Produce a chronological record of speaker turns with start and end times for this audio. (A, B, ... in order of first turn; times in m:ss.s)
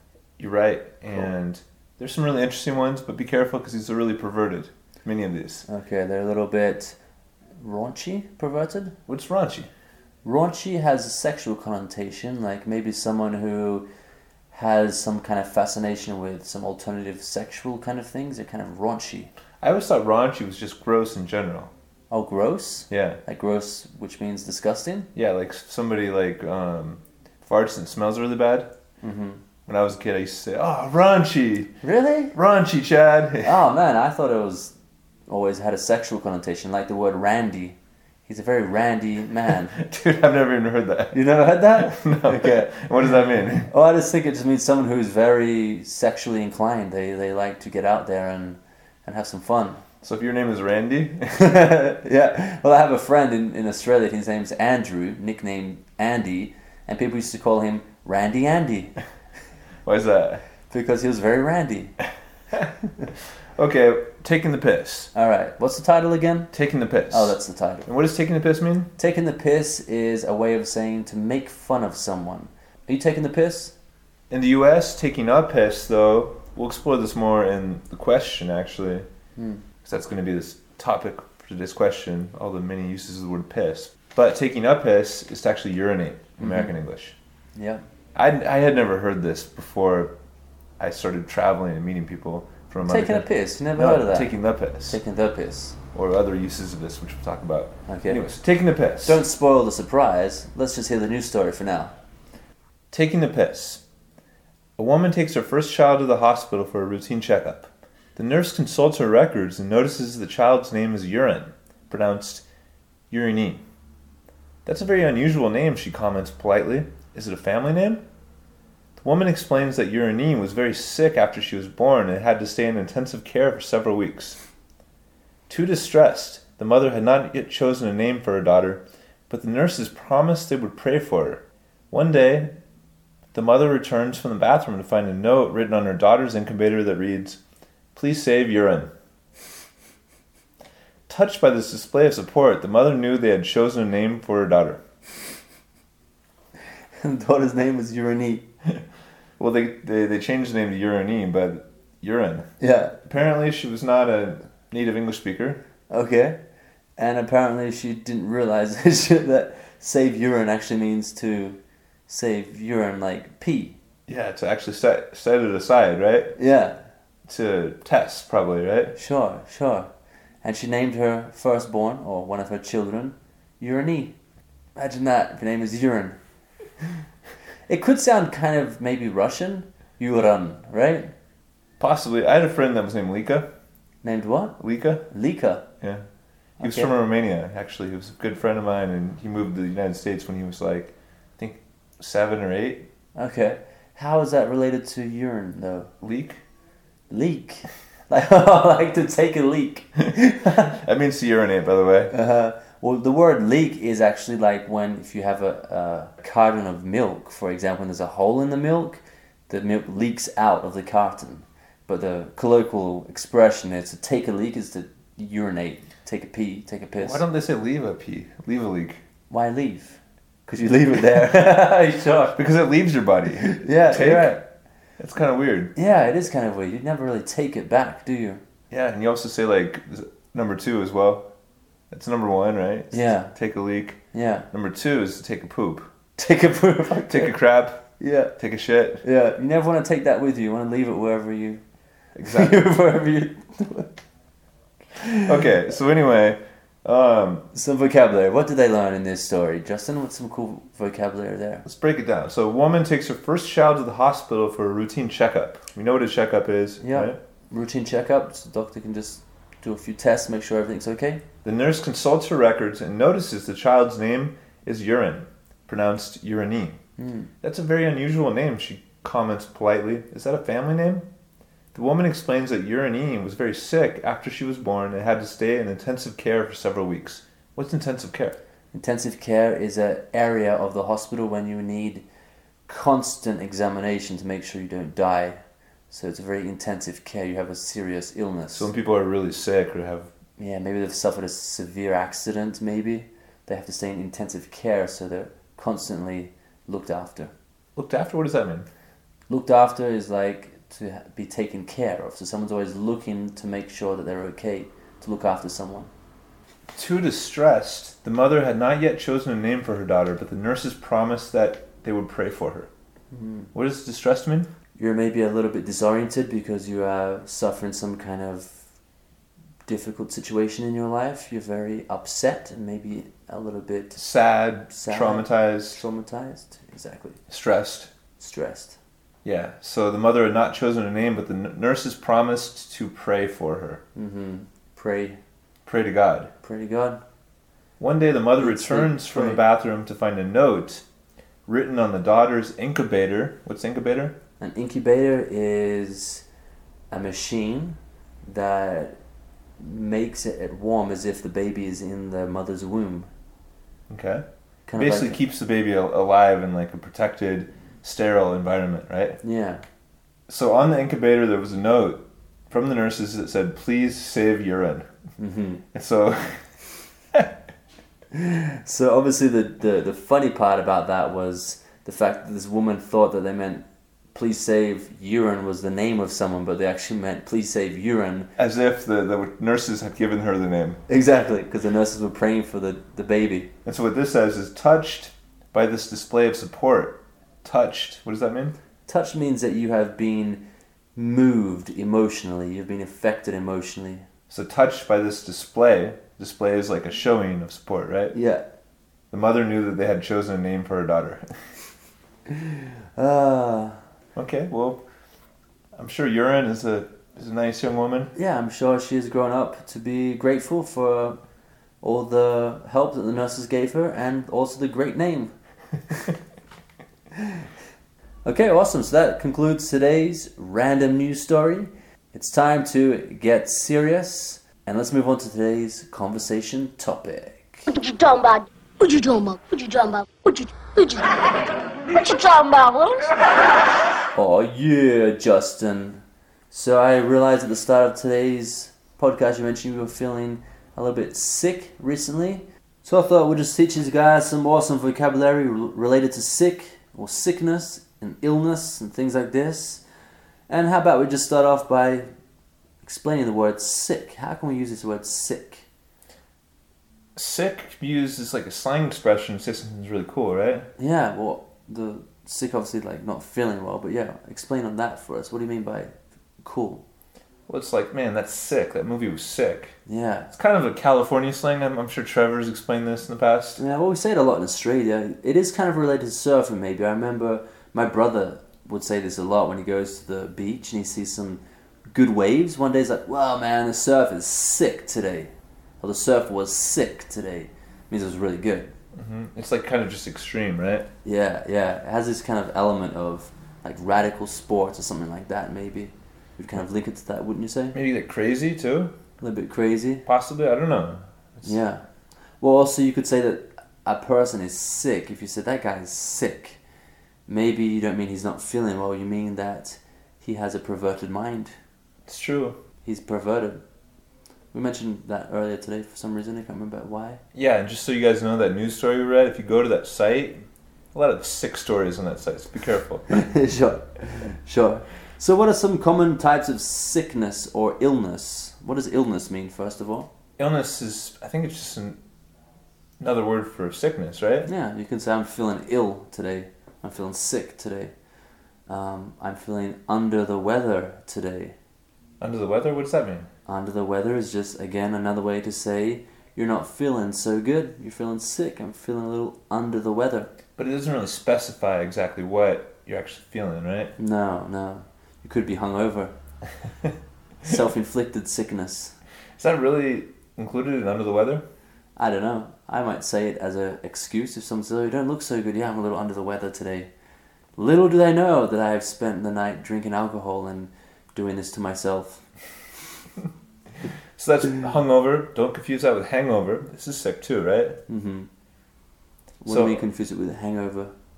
0:00.4-0:05.7 A
0:05.7-0:07.0 B
0:07.6-0:09.0 B
0:09.1-0:09.7 A
0:10.2-0:13.9 B
0:14.5-0:19.3 B
0:19.6-0:21.7 A
0:22.1-0:25.1 B
0:22.9-0:23.2 A
0:25.2-0:28.7 A
0:29.0-0:29.4 B
0:29.7-0:31.8 A
0:31.8-0:32.4 B
0:32.3-0:33.6 A
0:33.4-0:34.7 B
0:35.3-0:39.8 B
0:39.7-0:43.7 A
0:41.1-0:42.8 B
0:43.7-0:49.8 B
0:50.0-0:51.5 A
0:51.3-0:59.0 B
0:59.8-1:00.4 A
1:00.7-1:02.0 B
1:03.6-1:05.1 A
1:05.1-1:06.5 B
1:06.5-1:08.9 A
1:07.1-1:07.9 B
1:09.0-1:13.7 B
1:14.3-1:19.1 A
1:19.4-1:19.6 B
1:19.8-1:27.2 A
1:26.4-1:26.7 B
1:27.6-1:27.8 B
1:28.2-1:30.1 A
1:30.8-1:35.0 A
1:32.8-1:34.3 B
1:34.9-1:35.8 B
1:35.9-1:39.2 A
1:37.9-1:38.2 B
1:39.0-1:42.0 B
1:42.9-1:43.8 A
1:44.8-1:52.4 A
1:53.1-1:53.6 A
1:54.6-1:58.0 A
1:59.0-2:04.4 A
2:05.5-2:12.5 A
2:13.3-2:17.4 A
2:18.0-2:18.9 A
2:21.1-2:24.8 A
2:27.0-2:28.5 B
2:29.4-2:32.5 A
2:32.6-2:33.0 B
2:33.0-2:35.6 A
2:35.9-2:36.4 B
2:37.0-2:43.8 B
2:44.1-2:46.4 A
2:46.4-2:46.8 B
2:47.3-2:49.0 A
2:49.0-2:49.9 B
2:50.4-2:54.2 B
2:54.8-2:56.2 B
2:57.7-3:01.1 B
3:01.8-3:03.5 A
3:04.0-3:04.6 B
3:04.6-3:05.0 A
3:05.1-3:05.7 B
3:06.6-3:06.9 B
3:06.6-3:12.9 A
3:13.2-3:15.9 B
3:16.0-3:16.4 A
3:17.1-3:20.8 B
3:20.5-3:22.1 A
3:22.1-3:37.2 B
3:37.0-3:39.0 A
3:39.3-3:42.4 B
3:42.4-3:44.4 A
3:43.4-3:44.4 B
3:45.0-3:45.7 A
3:45.8-3:48.4 B
3:48.7-3:51.3 A
3:51.9-3:54.0 A
3:52.9-3:53.3 B
3:54.1-3:54.5 B
3:54.5-3:55.9 A
3:56.2-3:57.4 B
3:57.0-3:59.0 A
3:58.0-3:58.4 B
3:59.0-4:01.6 B
4:02.2-4:02.6 A
4:02.2-4:03.9 B
4:05.0-4:05.3 B
4:05.2-4:07.5 A
4:07.5-4:11.6 B
4:11.6-4:17.2 A
4:16.8-4:21.2 B
4:21.4-4:26.8 A
4:27.0-4:27.3 B
4:27.4-4:31.1 A
4:31.7-4:38.4 A
4:38.7-4:42.0 B
4:42.7-4:48.7 B
4:48.5-4:50.1 A
4:50.4-4:57.3 B
4:57.8-4:58.7 A
4:59.3-5:05.9 B
5:06.8-5:12.7 A
5:13.1-5:13.5 B
5:13.5-5:14.5 A
5:14.8-5:18.6 B
5:19.7-5:24.0 B
5:24.0-5:25.8 A
5:24.7-5:27.2 B
5:27.3-5:27.9 A
5:28.2-5:28.8 B
5:29.2-5:33.8 A
5:34.0-5:35.2 B
5:35.7-5:36.3 A
5:36.4-5:37.0 B
5:37.8-5:40.8 A
5:38.4-5:39.4 B
5:41.5-5:44.2 A
5:44.4-5:46.2 B
5:46.9-5:49.0 B
5:49.6-5:53.1 B
5:53.9-5:59.2 A
5:54.7-5:55.2 B
5:59.2-5:59.6 B
6:00.3-6:04.9 A
6:05.2-6:05.6 B
6:05.7-6:06.4 A
6:08.1-6:18.3 B
6:18.4-6:20.8 A
6:20.9-6:23.5 B
6:23.6-6:28.6 A
6:28.9-6:30.4 B
6:31.0-6:34.1 B
6:34.3-6:38.2 A
6:38.1-6:38.4 B
6:39.1-6:41.3 A
6:42.3-6:43.8 B
6:44.2-6:44.8 A
6:45.8-6:48.1 A
6:48.2-6:51.2 B
6:51.8-6:55.3 B
6:58.2-7:07.7 B
7:07.7-7:13.2 C
7:14.2-7:29.8 B
7:30.5-7:32.1 B
7:32.8-7:35.7 B
7:37.2-7:40.7 A
7:40.8-7:46.8 B
7:47.5-7:49.8 A
7:49.9-7:50.3 B
7:50.3-7:53.6 A
7:53.6-8:08.7 B
8:09.0-8:10.9 A
8:11.0-8:17.8 B
8:17.7-8:18.9 A
8:19.2-8:20.1 B
8:20.1-8:21.6 A
8:21.4-8:21.8 B
8:22.4-8:26.6 B
8:27.3-8:31.5 B
8:32.1-8:32.6 A
8:32.8-8:33.6 B
8:34.5-8:37.2 B
8:37.3-8:40.4 A
8:40.9-8:43.1 A
8:43.1-8:50.1 B
8:50.4-8:52.0 A
8:53.0-8:54.5 A
8:54.5-8:57.9 B
8:58.7-9:01.6 B
9:02.2-9:03.3 A
9:03.5-9:10.3 B
9:10.6-9:13.9 A
9:14.0-9:16.1 B
9:17.4-9:19.0 B
9:19.4-9:21.4 A
9:22.0-9:26.9 B
9:27.6-9:32.2 B
9:34.2-9:37.8 A
9:37.9-9:38.3 B
9:39.4-9:40.9 B
9:39.5-9:39.8 A